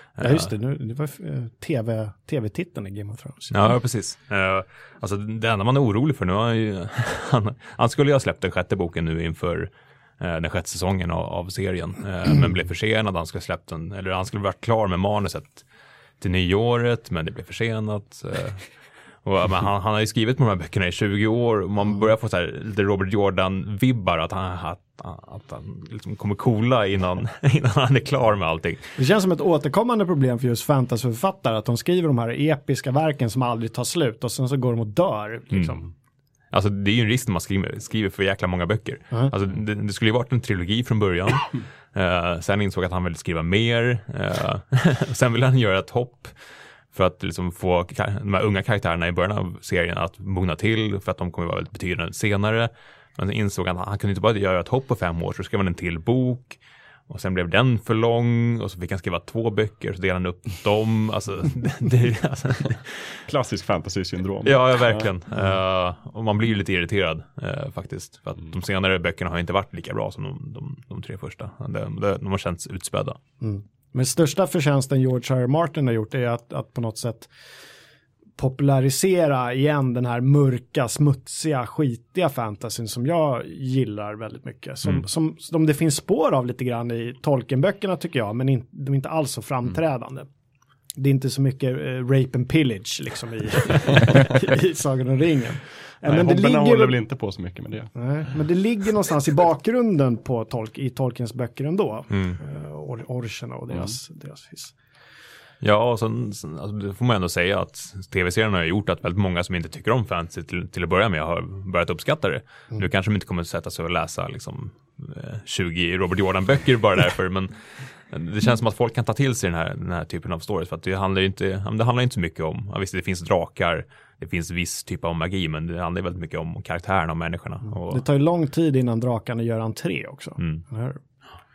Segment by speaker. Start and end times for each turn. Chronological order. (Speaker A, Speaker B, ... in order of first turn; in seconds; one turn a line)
Speaker A: 0.2-3.5
Speaker B: 3.5-15.6
Speaker B: 16.2-28.9
Speaker A: 29.0-35.9
Speaker B: 35.5-35.8
Speaker B: 36.5-63.2
Speaker C: 63.3-65.0
Speaker B: 64.4-73.2
Speaker A: 73.4-77.3
Speaker A: 78.4-90.3
Speaker A: 91.0-97.0
Speaker C: 96.0-97.9
Speaker A: 97.9-104.7
Speaker B: 102.1-102.4
Speaker B: 105.6-128.0
Speaker A: 127.7-131.0